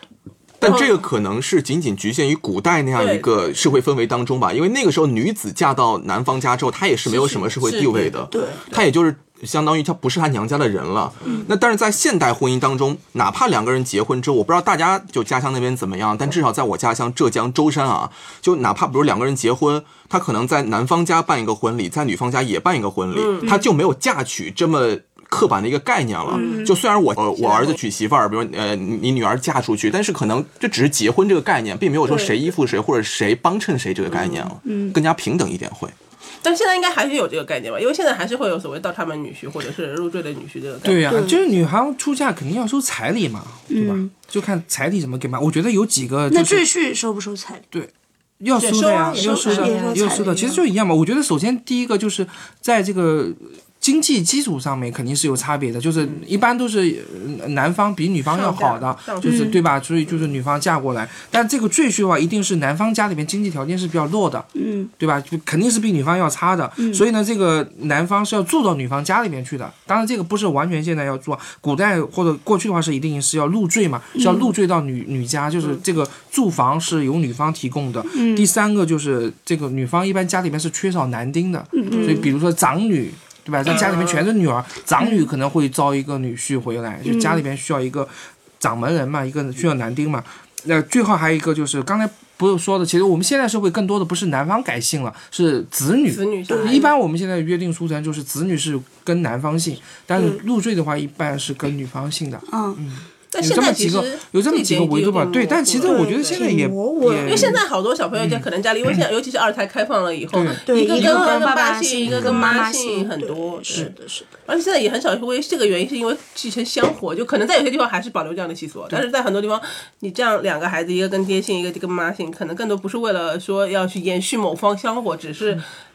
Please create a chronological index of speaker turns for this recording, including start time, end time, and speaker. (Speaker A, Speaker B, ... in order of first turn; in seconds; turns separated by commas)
Speaker A: 0.6-35.9, Speaker B: 0.6-0.9, Speaker B: 3.0-3.3, Speaker B: 7.0-8.8, Speaker C: 8.3-8.6, Speaker B: 23.1-23.6, Speaker B: 26.2-26.7, Speaker C: 26.3-26.8, Speaker B: 27.4-27.8, Speaker B: 32.0-32.4, Speaker B: 34.1-34.5, Speaker C: 34.6-35.0, Speaker B: 36.4-41.3, Speaker D: 40.8-46.7, Speaker C: 41.1-41.4, Speaker C: 43.7-44.1, Speaker C: 46.3-47.6, Speaker D: 47.7-107.6, Speaker B: 48.6-50.3, Speaker C: 49.1-50.6, Speaker B: 58.3-59.6, Speaker C: 59.2-59.6, Speaker C: 64.5-64.9, Speaker C: 66.8-67.0, Speaker C: 74.1-74.5, Speaker C: 78.1-78.5, Speaker C: 81.7-82.3, Speaker B: 81.9-82.3, Speaker B: 83.6-84.3, Speaker C: 85.0-85.3, Speaker C: 87.0-87.4, Speaker B: 96.1-96.9, Speaker C: 96.5-96.8, Speaker C: 102.5-102.8, Speaker B: 103.3-106.5, Speaker C: 105.8-107.6, Speaker B: 107.2-113.9, Speaker D: 108.2-108.4, Speaker D: 110.3-111.2, Speaker C: 110.7-114.3, Speaker A: 112.1-112.5, Speaker B: 114.5-125.6